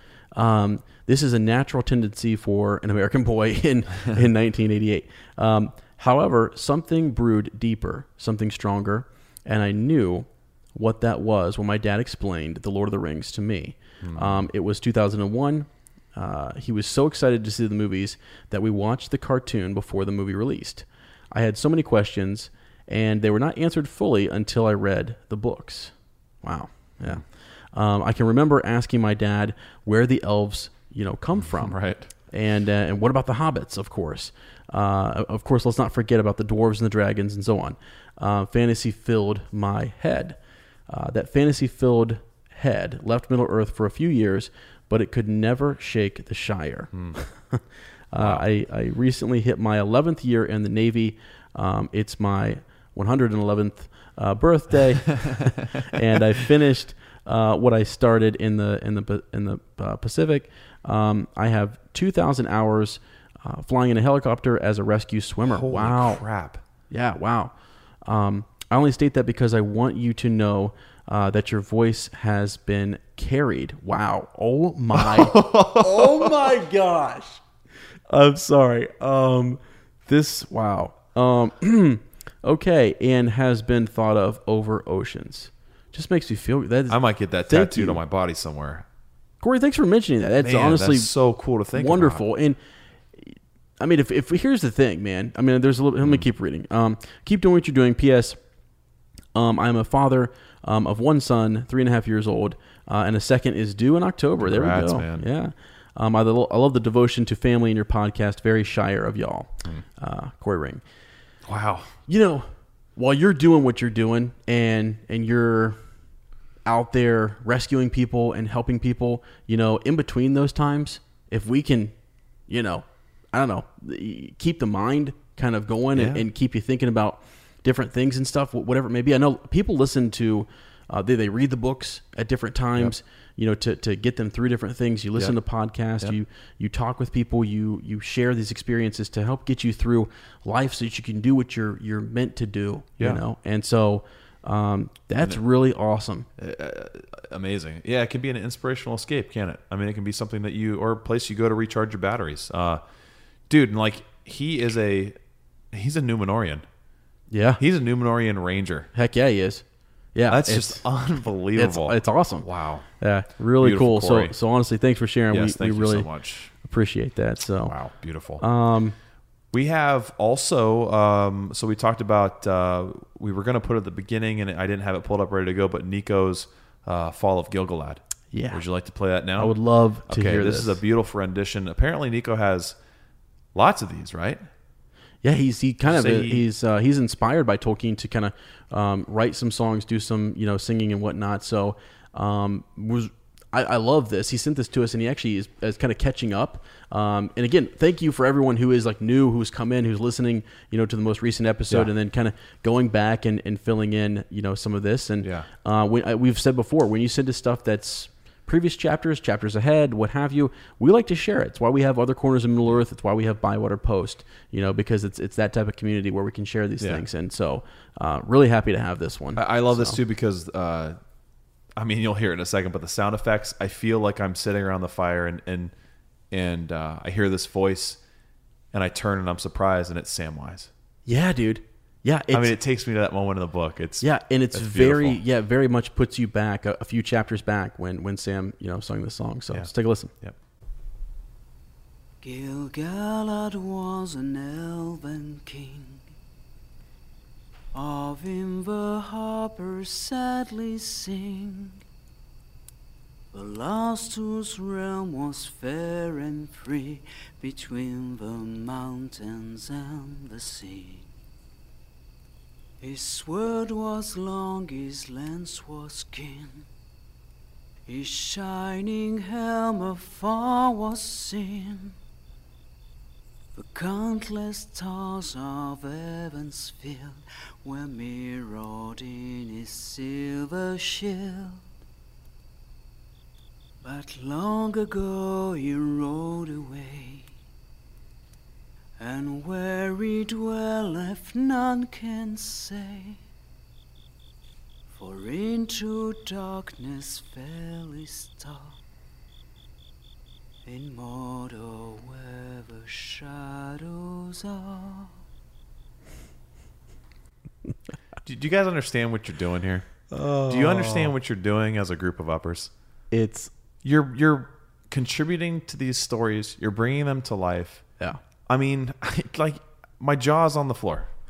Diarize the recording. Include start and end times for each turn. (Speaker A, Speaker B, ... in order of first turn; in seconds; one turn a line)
Speaker A: 0.3-31.8
Speaker B: 14.0-14.5
Speaker B: 31.4-32.1
Speaker A: 32.3-66.2
Speaker B: 46.9-47.2
Speaker B: 48.2-48.4
Speaker B: 65.5-66.6
Speaker A: 66.9-67.5
Speaker A: 68.0-77.4
Speaker B: 75.0-76.3
Speaker A: 78.1-88.0
Speaker B: 86.9-88.8
Speaker A: 89.4-91.1
Speaker B: 90.4-92.2
Speaker A: 91.7-92.6
Speaker A: 93.2-98.4
Speaker A: 99.3-110.8
Speaker B: 104.4-105.2
Speaker B: 111.5-111.9
Speaker A: 112.1-115.8
Speaker A: 116.6-121.9
Speaker A: 122.5-146.3
Speaker B: 125.9-126.2
Speaker B: 146.4-152.8
Speaker B: 153.5-155.2
Speaker B: 155.7-156.6
Speaker A: 157.3-157.6
Speaker B: 157.6-158.9
Speaker A: 158.9-160.8
Speaker B: 160.3-162.9
Speaker A: 161.5-162.5
Speaker A: 163.0-166.1
Speaker B: 163.6-164.3
Speaker B: 165.3-166.5
Speaker A: 166.6-167.7
Speaker B: 167.6-168.4
Speaker A: 168.4-168.9
Speaker B: 169.5-179.6
Speaker A: 178.3-178.6
Speaker A: 179.4-180.8
Speaker B: 180.1-182.8
Speaker B: 183.5-184.4
Speaker A: 185.2-220.0
Speaker B: 185.8-186.4
Speaker B: 205.2-205.5
Speaker B: 219.3-221.0
Speaker B: 221.8-225.7
Speaker B: 226.3-228.0
Speaker B: 228.7-230.7
Speaker A: 231.1-232.5
Speaker B: 232.3-235.2
Speaker A: 234.0-240.1
Speaker B: 239.5-240.3
Speaker C: 242.2-246.0
Speaker C: 247.7-251.8
Speaker C: 253.3-261.1
Speaker C: 262.8-266.7
Speaker C: 267.9-271.9
Speaker C: 273.5-281.6
Speaker C: 283.8-287.3
Speaker C: 289.0-293.2
Speaker C: 294.9-298.8
Speaker C: 300.6-305.1
Speaker B: 308.2-312.7
Speaker A: 310.1-311.1
Speaker A: 313.1-313.5
Speaker B: 313.8-317.8
Speaker B: 318.5-321.1